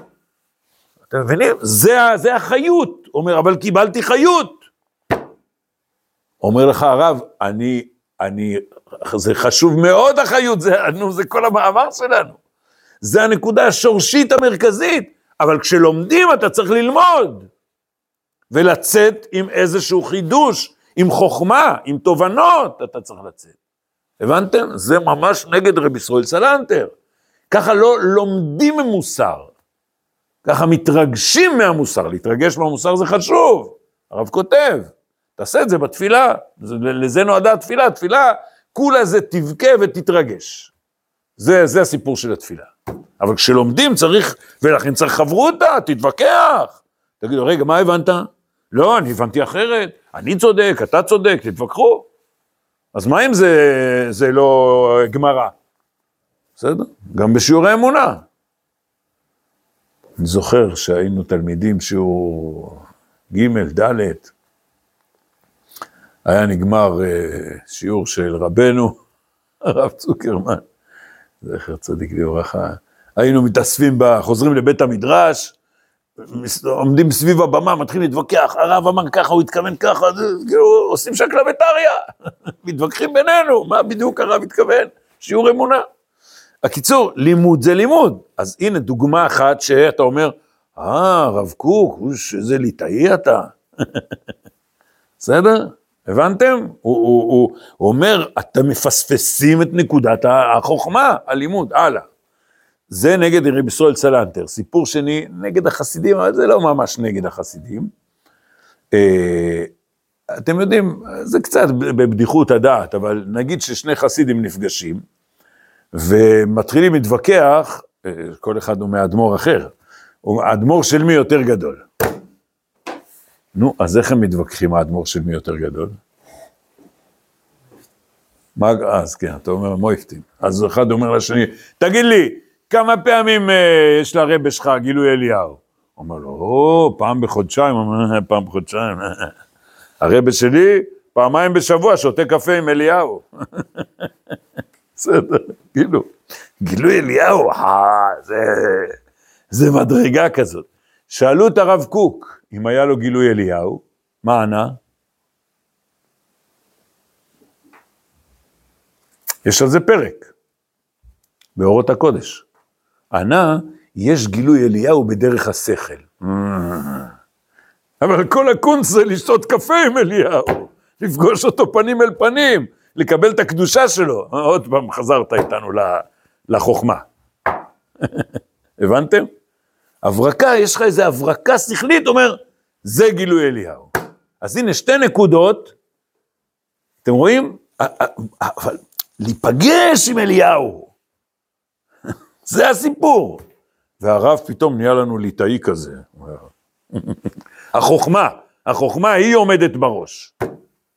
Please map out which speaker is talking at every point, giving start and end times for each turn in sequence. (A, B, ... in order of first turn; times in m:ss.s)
0:01.1-0:04.6 A
0:06.4-0:12.4 A
0:13.0-0:17.5 A
0:18.5-0:23.6 A
0:24.2-0:26.9 A
0:27.5-0:29.5 A
0:30.4-0:40.7 A
0:41.4-0:52.1 A
0:52.9-0:55.5 A
0:56.6-0:58.2 A
1:00.2-1:04.3 A
1:06.2-1:08.9 A
1:09.6-1:10.6 A
1:11.4-1:15.6 A
1:16.2-1:22.0 A
1:22.6-1:25.8 A
1:26.6-1:34.0 A
1:35.2-1:42.1 A
1:42.9-1:47.9 A
1:48.9-1:49.7 A
1:50.4-1:55.0 A
1:55.9-2:01.8 A
2:03.5-2:06.0 A
2:08.6-2:19.3 A
2:20.0-2:24.1 A
2:25.0-2:26.1 A
2:26.6-2:29.0 A
2:29.5-2:34.8 A
2:39.4-2:40.3 A
2:41.6-2:42.4 A
2:43.1-2:47.1 A
2:48.0-2:57.1 A
2:58.8-2:59.3 A
3:00.0-3:03.9 A
3:04.4-3:05.7 A
3:07.0-3:10.9 A
3:12.4-3:13.4 A
3:14.0-3:20.3 A